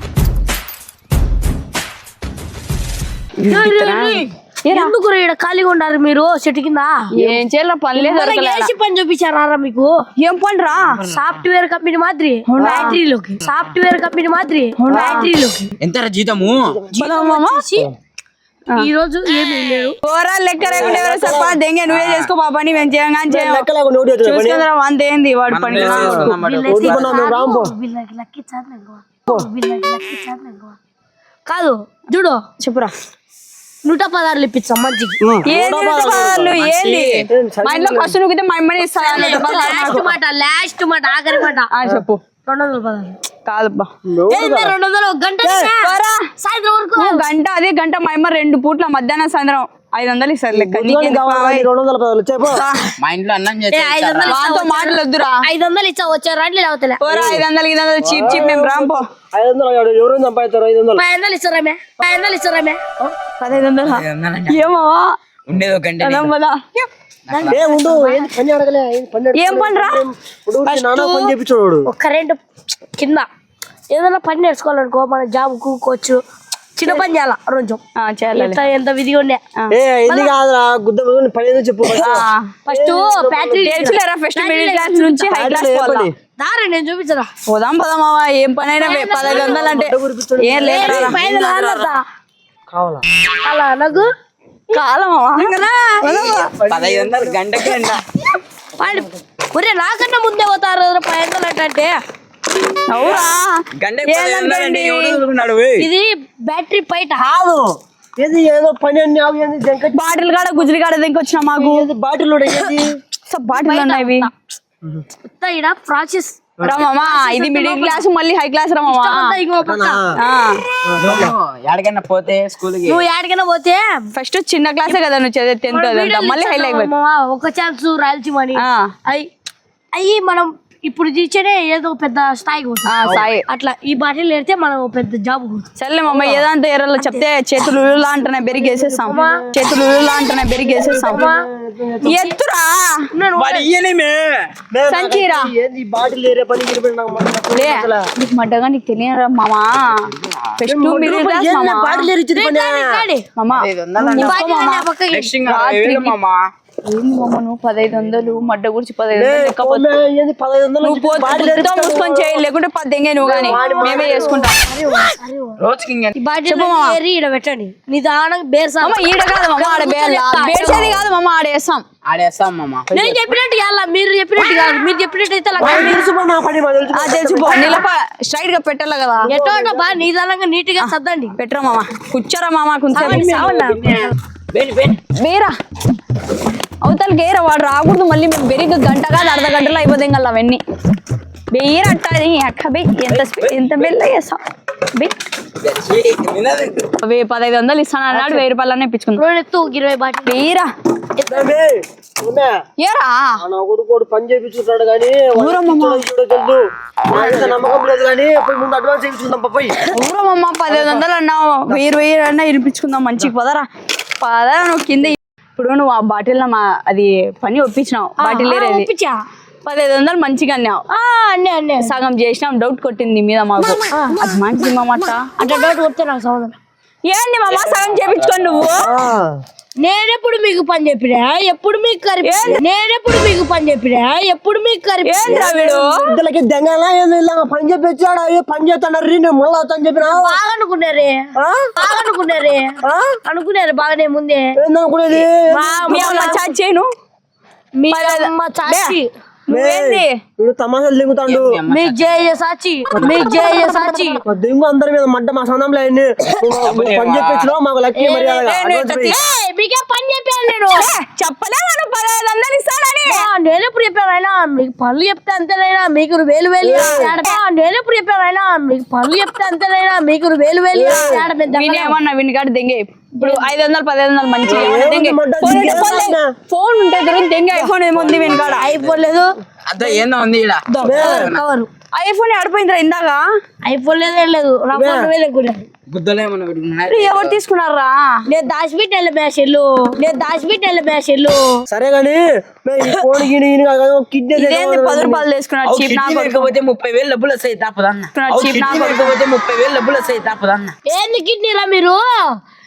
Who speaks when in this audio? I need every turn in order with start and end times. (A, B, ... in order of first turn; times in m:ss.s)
0:03.4-0:04.9 A
0:03.4-0:07.1 B
0:07.1-0:08.7 A
0:08.0-0:09.9 B
0:10.2-0:11.0 A
0:11.1-0:15.7 B
0:12.5-0:13.0 A
0:14.8-0:15.3 A
0:14.9-0:15.2 C
0:15.8-0:16.8 D
0:16.9-0:17.9 B
0:17.0-0:17.6 A
0:18.7-0:20.0 B
0:20.0-0:23.7 A
0:20.7-0:21.6 C
0:21.9-0:22.3 D
0:23.3-0:24.7 C
0:24.2-0:26.3 A
0:25.5-0:27.1 D
0:25.8-0:27.7 C
0:26.3-0:30.8 B
0:31.5-0:32.4 B
0:32.6-0:32.9 A
0:33.8-0:35.2 B
0:35.2-0:36.6 C
0:35.5-0:40.1 A
0:36.5-0:37.3 D
0:37.3-0:38.2 C
0:38.8-0:41.7 B
0:41.7-0:42.2 A
0:42.4-0:43.2 B
0:43.4-0:43.9 A
0:44.0-0:44.8 C
0:44.3-0:47.3 B
0:45.4-0:45.7 C
0:45.8-0:46.2 A
0:47.0-0:51.7 A
0:50.5-0:52.6 C
0:52.5-0:52.9 A
0:53.0-0:54.4 D
0:53.7-0:57.0 B
0:54.3-0:55.4 A
0:57.0-0:59.1 A
0:57.1-0:57.4 C
0:58.0-1:01.0 C
1:01.0-1:02.8 B
1:03.4-1:05.2 A
1:03.8-1:04.7 D
1:05.5-1:06.3 D
1:06.0-1:06.9 A
1:07.3-1:07.6 D
1:07.3-1:08.3 B
1:07.5-1:11.9 C
1:09.4-1:10.0 A
1:10.7-1:11.3 A
1:11.9-1:12.4 B
1:13.0-1:13.3 B
1:13.9-1:16.2 B
1:16.8-1:17.8 B
1:18.0-1:18.6 A
1:18.3-1:19.4 B
1:19.7-1:23.8 C
1:20.1-1:20.3 B
1:22.0-1:22.5 A
1:22.7-1:25.3 B
1:23.6-1:26.1 A
1:25.3-1:26.1 C
1:26.4-1:27.3 B
1:27.5-1:31.3 A
1:28.8-1:29.8 B
1:29.2-1:31.2 C
1:30.6-1:32.0 B
1:31.1-1:31.9 D
1:32.7-1:33.0 C
1:33.4-1:34.1 B
1:34.7-1:36.6 A
1:35.4-1:36.1 B
1:36.0-1:38.0 D
1:36.6-1:37.4 C
1:38.8-1:42.0 B
1:42.9-1:45.2 A
1:43.8-1:45.9 D
1:45.8-1:47.3 B
1:47.2-1:50.4 C
1:49.9-1:51.9 A
1:51.6-1:52.9 C
1:53.3-1:54.3 A
1:53.5-1:54.3 B
1:55.2-1:58.0 B
1:56.6-1:59.3 A
1:58.8-2:00.1 B
1:59.6-2:00.2 C
2:00.2-2:00.6 A
2:00.8-2:01.4 C
2:01.0-2:03.0 D
2:02.9-2:04.1 B
2:04.1-2:06.9 A
2:05.7-2:09.3 B
2:08.6-2:08.9 A
2:09.9-2:15.7 B
2:12.9-2:13.4 A
2:15.8-2:21.2 A
2:17.0-2:17.2 B
2:18.5-2:19.4 C
2:19.1-2:19.4 B
2:20.6-2:22.2 C
2:21.1-2:21.5 B
2:22.0-2:23.0 A
2:22.0-2:22.4 B
2:23.1-2:23.7 B
2:23.4-2:24.6 D
2:24.7-2:28.1 C
2:24.9-2:25.5 A
2:27.5-2:32.1 A
2:30.2-2:30.5 D
2:30.7-2:33.0 C
2:32.4-2:33.3 B
2:33.4-2:34.9 A
2:33.5-2:34.4 D
2:34.1-2:35.3 B
2:35.1-2:36.4 D
2:35.4-2:36.2 A
2:36.9-2:39.9 A
2:39.2-2:42.4 C
2:40.8-2:44.6 A
2:43.2-2:44.4 C
2:43.3-2:45.6 B
2:45.6-2:46.2 D
2:46.2-2:49.0 B
2:46.5-2:47.0 A
2:48.8-2:51.8 A
2:49.5-2:51.0 B
2:52.1-2:53.2 D
2:52.9-2:56.1 B
2:55.6-2:57.8 C
2:56.9-2:59.3 A
2:59.2-3:00.0 C
2:59.3-3:01.4 B
3:00.8-3:03.3 A
3:02.9-3:04.1 B
3:03.0-3:05.0 D
3:05.1-3:05.5 A
3:06.8-3:10.6 A
3:11.5-3:14.4 A
3:13.1-3:14.0 D
3:15.6-3:16.9 D
3:17.0-3:19.2 A
3:19.2-3:20.4 B
3:20.3-3:20.7 A
3:21.2-3:21.5 B
3:21.3-3:22.6 C
3:22.8-3:23.4 A
3:23.4-3:29.8 C
3:25.4-3:26.0 A
3:27.1-3:27.6 A
3:29.9-3:33.7 A
3:30.7-3:31.0 C
3:34.2-3:38.9 A
3:38.2-3:39.2 B
3:39.6-3:40.8 A
3:40.9-3:41.9 B
3:41.8-3:45.3 A
3:43.9-3:44.2 B
3:45.4-3:46.6 B
3:47.1-3:48.9 A
3:47.5-3:48.7 D
3:48.8-3:49.4 C
3:49.8-3:55.5 B
3:52.2-3:52.6 A
3:55.0-3:55.9 A
3:55.2-4:00.4 C
4:00.0-4:04.6 B
4:01.4-4:01.7 C
4:02.8-4:03.2 C
4:04.6-4:06.2 C
4:05.5-4:06.5 B
4:05.9-4:06.9 A
4:07.8-4:09.1 B
4:07.9-4:08.9 A
4:09.5-4:10.2 A
4:09.5-4:11.6 C
4:11.3-4:12.1 D
4:11.7-4:14.2 B
4:12.9-4:13.4 C
4:13.0-4:13.5 D
4:13.4-4:14.1 A
4:14.2-4:19.2 C
4:16.4-4:17.5 D
4:18.0-4:18.4 B
4:18.4-4:19.2 A
4:19.0-4:20.9 B
4:20.7-4:23.2 A
4:23.0-4:32.0 B
4:26.6-4:27.1 C
4:26.7-4:27.3 A
4:30.7-4:31.3 C
4:31.5-4:38.7 A
4:33.2-4:33.6 B
4:34.5-4:36.3 C
4:37.9-4:39.0 D
4:38.6-4:39.3 B
4:39.7-4:41.4 D
4:40.7-4:41.7 B
4:40.8-4:41.3 C
4:41.9-4:43.2 A
4:43.6-4:45.7 B
4:44.7-4:45.1 C
4:45.9-4:47.4 D
4:46.9-4:48.2 A
4:48.3-4:51.6 B
4:51.7-4:55.2 C
4:54.4-4:56.5 A
4:55.6-5:00.7 D
4:58.1-4:59.2 A
5:00.9-5:02.4 B